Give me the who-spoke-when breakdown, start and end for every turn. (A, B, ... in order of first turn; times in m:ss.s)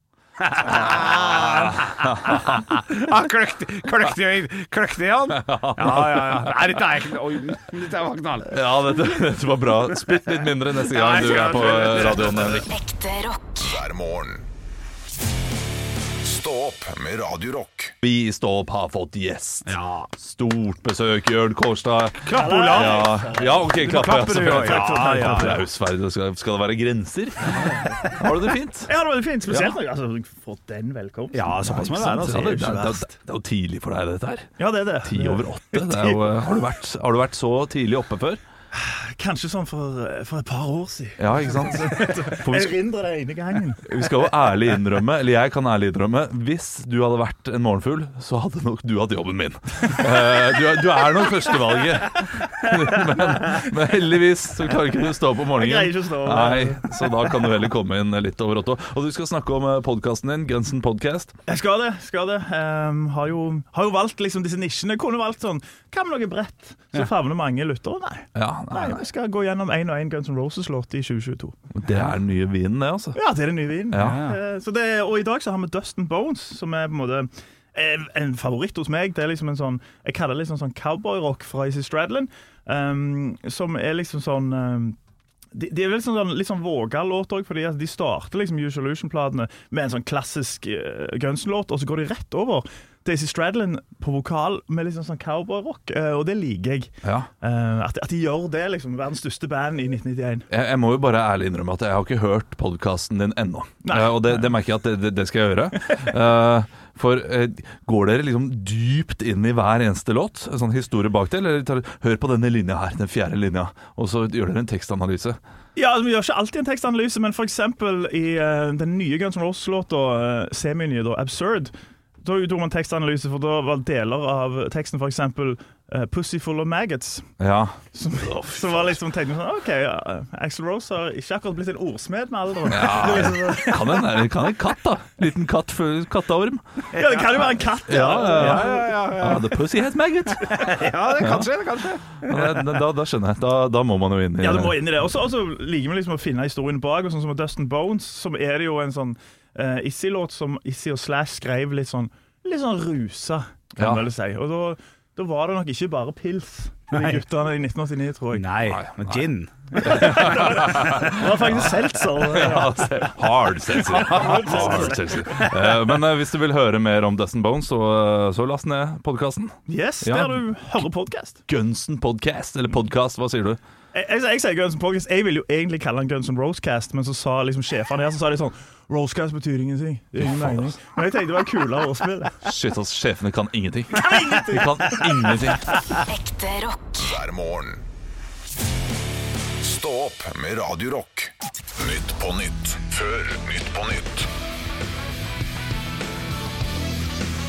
0:00.4-0:08.7 A
0:00.6-0:02.8 B
0:05.3-0:06.6 B
0:08.5-0:12.7 B
0:10.8-0:12.7 A
0:12.7-0:14.5 C
0:16.2-0:17.9 C
0:18.0-0:28.9 B
0:19.7-0:20.1 A
0:22.2-0:25.6 A
0:22.3-0:25.6 D
0:28.9-0:33.1 D
0:31.3-0:32.6 A
0:31.7-0:38.4 B
0:34.6-0:36.3 D
0:38.7-0:44.0 D
0:41.2-0:42.8 B
0:43.8-1:01.3 B
0:55.5-0:57.4 D
1:01.5-1:11.7 D
1:08.4-1:09.0 B
1:11.8-1:13.2 B
1:13.2-1:25.0 D
1:13.9-1:14.2 B
1:14.0-1:14.4 A
1:25.5-1:40.4 D
1:37.0-1:37.3 B
1:40.5-1:55.4 B
1:43.8-1:44.4 D
1:55.8-2:07.3 D
2:07.4-2:09.0 B
2:07.9-2:14.2 D
2:12.7-2:16.6 B
2:16.9-2:17.3 A
2:17.0-2:18.9 D
2:17.9-2:21.5 B
2:17.9-2:19.6 A
2:20.4-2:22.6 A
2:22.2-2:24.8 B
2:24.4-2:38.5 D
2:33.8-2:34.0 B
2:36.9-2:37.2 A
2:38.3-2:40.7 A
2:38.7-2:39.2 B
2:39.8-2:43.1 D
2:39.8-2:50.4 B
2:43.8-2:45.5 D
2:43.9-2:45.0 A
2:49.7-2:51.4 D
2:51.5-2:53.6 B
2:53.9-3:02.4 D
3:00.2-3:00.7 B
3:02.4-3:05.8 B
3:04.1-3:04.4 A
3:06.1-3:07.8 C
3:09.6-3:14.3 C